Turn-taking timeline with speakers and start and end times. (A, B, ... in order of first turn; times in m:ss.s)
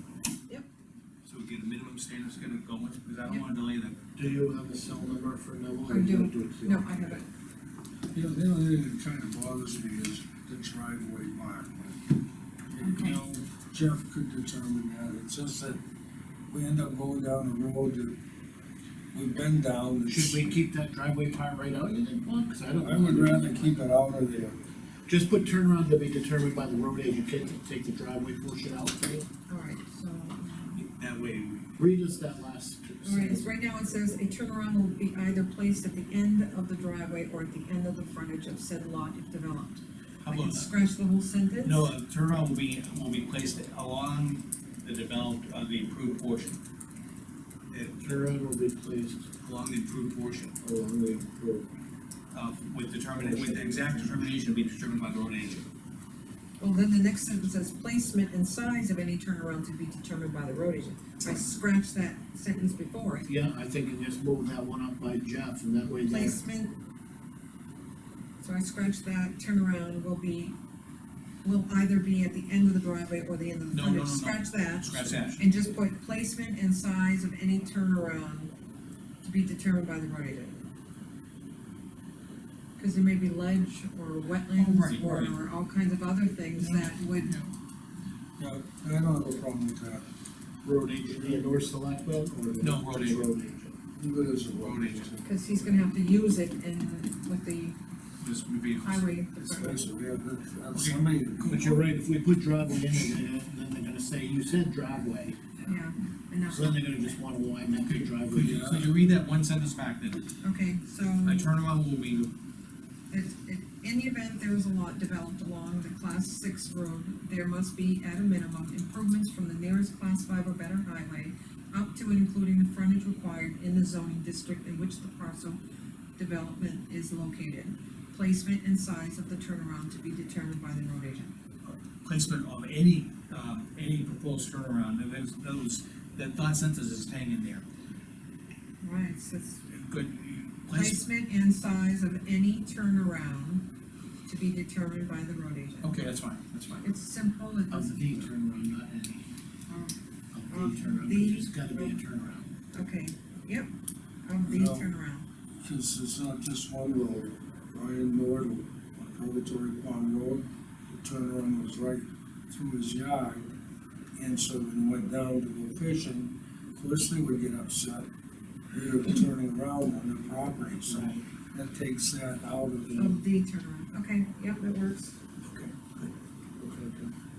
0:01.2-0:04.0 A
0:04.2-0:07.2 B
0:05.9-0:07.2 C
0:08.1-0:12.0 D
0:12.7-0:15.8 D
0:12.8-0:13.2 C
0:16.5-0:18.2 D
0:19.1-0:20.6 D
0:20.0-0:23.8 B
0:22.8-0:24.6 D
0:25.1-0:29.3 B
0:29.5-0:30.8 C
0:30.8-0:31.8 A
0:31.8-0:33.4 B
0:33.0-0:41.8 C
0:40.2-0:40.7 A
0:41.6-0:46.6 A
0:47.7-0:48.0 A
0:48.0-0:49.3 B
0:49.4-0:50.5 A
0:50.6-0:51.7 B
0:52.3-0:55.7 A
0:53.2-0:54.3 B
0:56.6-1:03.3 C
1:03.3-1:06.4 B
1:06.0-1:06.8 C
1:08.4-1:10.6 C
1:11.4-1:18.5 C
1:13.7-1:15.5 A
1:19.2-1:20.6 C
1:22.8-1:27.4 C
1:24.5-1:25.4 A
1:26.6-1:27.5 A
1:28.4-1:30.0 D
1:30.6-1:33.8 B
1:32.6-1:33.3 A
1:34.0-1:35.2 D
1:34.6-1:35.2 A
1:35.2-1:37.8 C
1:38.2-1:39.6 A
1:38.8-1:39.8 C
1:39.4-1:41.8 D
1:40.7-1:41.8 A
1:41.4-1:45.8 B
1:45.6-1:47.1 C
1:46.5-1:48.6 B
1:47.9-1:50.2 A
1:48.4-1:48.9 D
1:50.4-1:51.5 C
1:51.2-1:52.3 A
1:53.1-2:05.6 C
2:06.2-2:11.3 C
2:11.6-2:17.6 A
2:18.8-2:19.6 C
2:19.7-2:21.0 A
2:20.7-2:23.6 C
2:24.3-2:25.9 C
2:25.8-2:26.9 A
2:26.8-2:28.3 C
2:27.7-2:29.3 B
2:29.7-2:30.0 C
2:30.3-2:32.5 B
2:30.5-2:32.0 C
2:32.7-2:33.7 C
2:34.2-2:35.2 C
2:34.4-2:34.9 D
2:35.6-2:43.5 D
2:44.2-2:48.1 D
2:48.7-2:53.2 D
2:50.9-2:51.2 B
2:52.9-2:55.2 C
2:55.4-2:56.1 A
2:56.6-2:57.1 B